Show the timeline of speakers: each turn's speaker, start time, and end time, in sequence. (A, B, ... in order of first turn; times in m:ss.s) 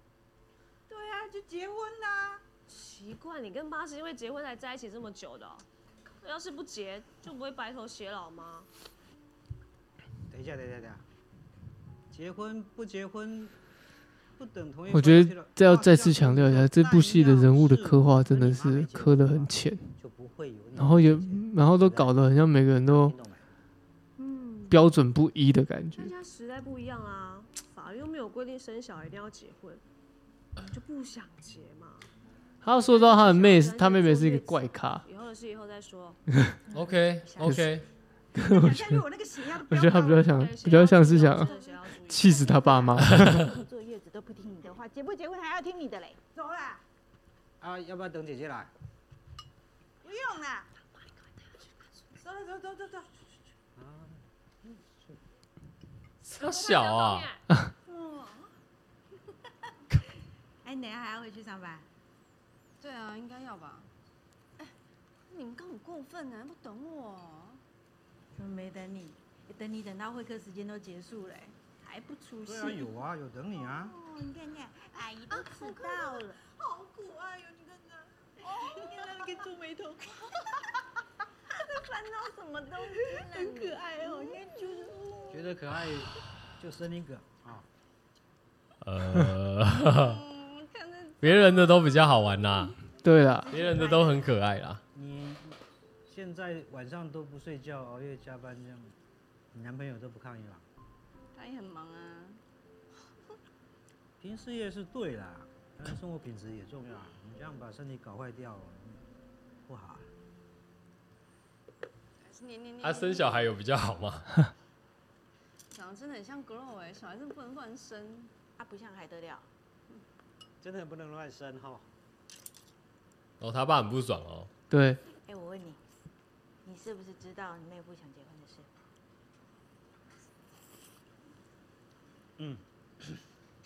0:00.9-0:02.4 A
0:02.7-0:05.6 B
0:06.2-0:08.7 B
0:10.3-0:11.0 C
0:12.1-0:13.5 C
0:14.4-0:23.5 C
0:14.9-0:19.9 D
0:20.8-0:23.2 D
0:24.2-0:24.8 B
0:24.7-0:26.1 D
0:26.0-0:29.8 B
0:30.6-0:32.1 B
0:32.6-0:35.0 D
0:32.7-0:36.2 B
0:36.7-0:37.8 E
0:37.2-0:37.5 A
0:37.4-0:37.7 D
0:38.3-0:39.0 D
0:38.4-0:40.4 A
0:39.7-0:41.5 D
0:40.2-0:42.4 B
0:41.3-0:46.8 A
0:42.0-0:43.5 D
0:47.6-0:48.7 C
0:50.0-0:50.7 A
0:52.2-0:53.1 A
0:53.8-0:55.2 C
0:56.2-0:57.3 E
0:56.4-0:57.4 B
0:57.9-0:58.4 A
1:00.6-1:01.9 A
1:02.8-1:03.9 F
1:05.3-1:07.6 F
1:08.3-1:20.4 A
1:12.4-1:14.0 C
1:21.6-1:25.6 A
1:25.3-1:27.7 C
1:28.8-1:30.2 E
1:31.2-1:32.8 E
1:33.0-1:33.5 D
1:33.5-1:34.8 E
1:33.5-1:34.1 A
1:34.9-1:39.0 C
1:39.5-1:40.6 C
1:41.4-1:42.4 F
1:44.2-1:49.0 C
1:49.6-1:50.1 C
1:52.2-1:53.5 F
1:52.8-1:54.3 E
1:55.7-1:58.3 F
1:58.6-1:59.5 A
2:00.6-2:01.9 C
2:03.4-2:04.5 E
2:04.7-2:05.0 D
2:05.3-2:05.8 A
2:06.6-2:08.7 A